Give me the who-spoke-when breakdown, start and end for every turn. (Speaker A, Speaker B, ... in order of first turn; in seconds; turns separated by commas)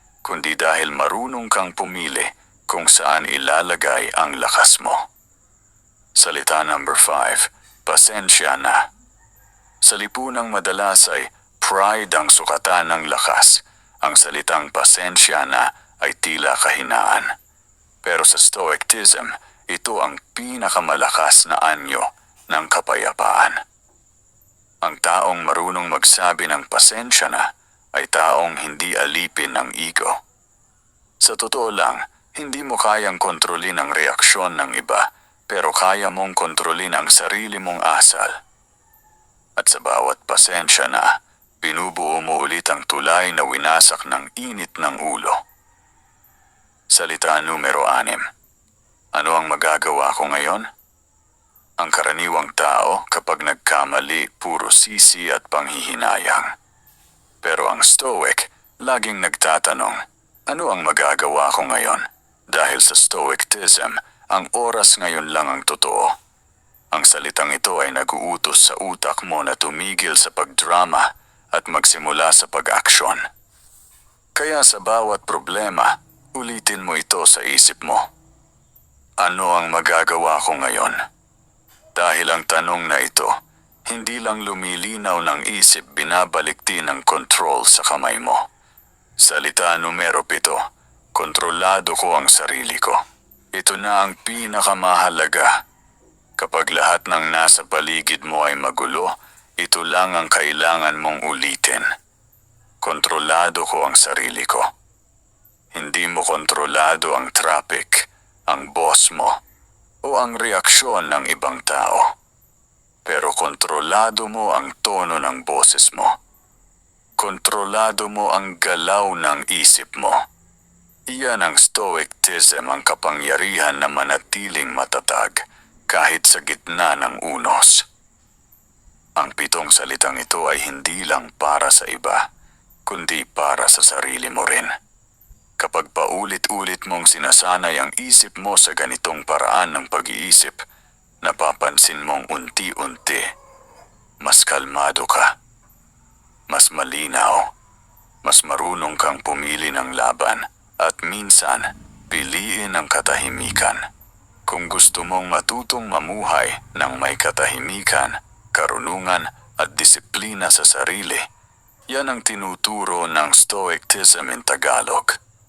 Speaker A: 0.2-5.1, Speaker A: 6.2-8.9, Speaker A: 9.8-17.3, Speaker A: 18.0-23.6, Speaker A: 24.8-30.2, Speaker A: 31.2-38.4, Speaker A: 39.6-45.4, Speaker A: 46.9-48.2, Speaker A: 49.1-50.7, Speaker A: 51.8-56.5, Speaker A: 57.4-66.1, Speaker A: 66.9-73.2, Speaker A: 74.3-78.0, Speaker A: 79.2-81.0, Speaker A: 81.9-83.3, Speaker A: 83.9-88.4, Speaker A: 89.2-90.6, Speaker A: 91.1-93.0, Speaker A: 93.5-95.6, Speaker A: 96.4-101.9, Speaker A: 102.8-104.7, Speaker A: 105.7-109.4, Speaker A: 110.0-112.1, Speaker A: 113.0-116.2, Speaker A: 117.2-120.2, Speaker A: 121.1-127.8, Speaker A: 129.2-132.3, Speaker A: 132.8-134.7, Speaker A: 135.6-140.6, Speaker A: 141.2-143.3, Speaker A: 144.2-145.3, Speaker A: 146.5-147.5, Speaker A: 148.2-153.8, Speaker A: 154.5-161.2, Speaker A: 161.9-165.2